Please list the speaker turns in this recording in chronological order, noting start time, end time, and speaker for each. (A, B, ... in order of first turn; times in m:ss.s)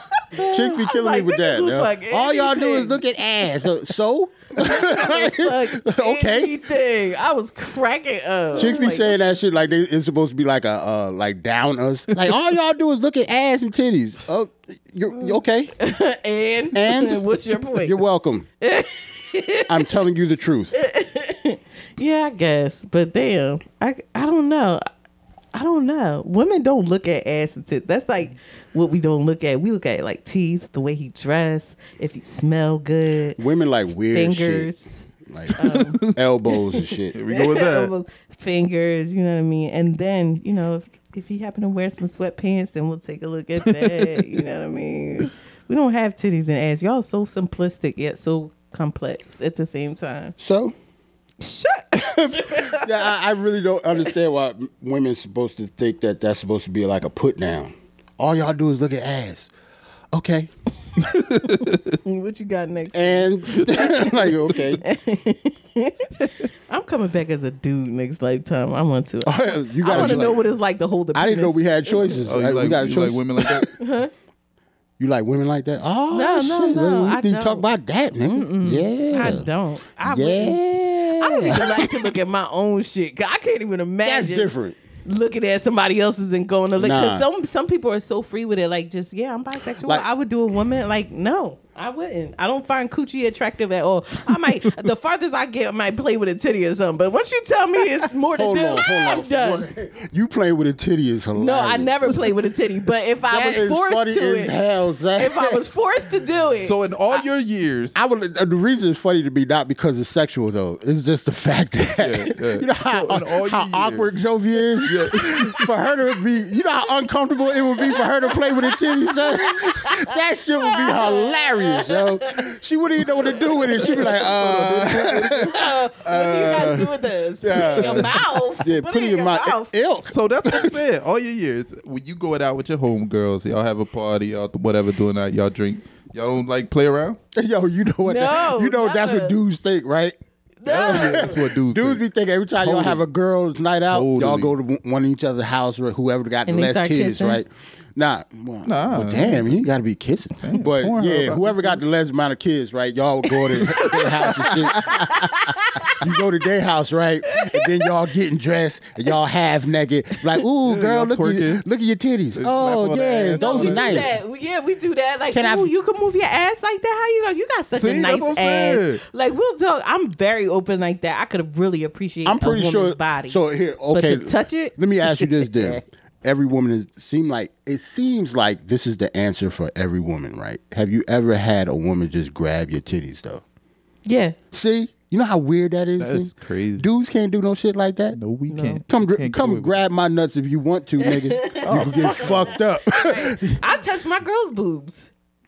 0:00.3-0:06.6 A
0:00.6-0:03.0 B
0:04.6-0:09.2 B
0:08.5-0:15.7 A
0:15.8-0:18.0 B
0:16.7-0:18.4 A
0:18.6-0:19.8 B
0:19.7-0:20.7 A
0:20.7-0:24.8 B
0:25.5-0:33.4 B
0:33.4-0:34.7 A
0:34.1-0:35.0 B
0:35.2-0:37.2 A
0:35.6-0:36.0 B
0:35.6-0:36.1 C
0:37.1-0:37.9 C
0:37.3-0:50.4 B
0:43.7-0:44.0 C
0:50.4-0:50.7 A
0:51.4-0:53.1 B
0:52.0-0:59.5 A
1:00.1-1:00.5 A
1:01.0-1:01.9 C
1:02.0-1:11.7 B
1:02.9-1:04.8 A
1:09.2-1:10.4 A
1:09.9-1:10.4 C
1:11.1-1:13.7 A
1:12.0-1:13.7 C
1:13.8-1:14.1 B
1:15.0-1:19.5 A
1:16.1-1:17.6 B
1:18.2-1:20.6 B
1:20.0-1:22.0 A
1:21.2-1:24.5 B
1:24.0-1:24.8 A
1:25.0-1:39.7 B
1:26.8-1:27.3 A
1:38.3-1:42.1 A
1:41.3-1:44.5 B
1:43.3-1:45.6 A
1:45.2-1:47.2 B
1:46.6-1:48.0 C
1:47.9-2:06.9 A
1:52.0-1:54.2 C
1:54.8-1:55.7 C
1:57.9-2:00.0 B
2:00.6-2:02.4 B
2:03.3-2:04.0 B
2:03.8-2:06.9 C
2:05.5-2:09.7 B
2:07.4-2:10.8 A
2:07.5-2:08.1 C
2:10.1-2:17.2 C
2:17.3-2:20.2 A
2:18.0-2:19.4 B
2:20.6-2:21.3 B
2:20.6-2:22.0 C
2:20.7-2:35.0 A
2:22.6-2:23.0 C
2:23.9-2:24.5 C
2:26.5-2:27.4 B
2:28.6-2:29.6 C
2:30.4-2:31.8 C
2:33.7-2:34.1 B
2:33.7-2:35.2 C
2:34.9-2:36.0 B
2:36.0-2:44.1 A
2:37.3-2:37.6 B
2:40.6-2:41.6 C
2:42.3-2:44.1 C
2:43.3-2:53.4 B
2:45.3-2:45.7 A
2:47.7-2:49.0 C
2:52.2-3:03.4 A
2:53.9-2:55.8 B
3:04.0-3:04.4 B
3:04.5-3:08.2 A
3:06.0-3:06.9 C
3:08.1-3:09.8 C
3:08.5-3:08.8 B
3:08.9-3:13.6 A
3:11.0-3:15.1 B
3:11.6-3:12.5 C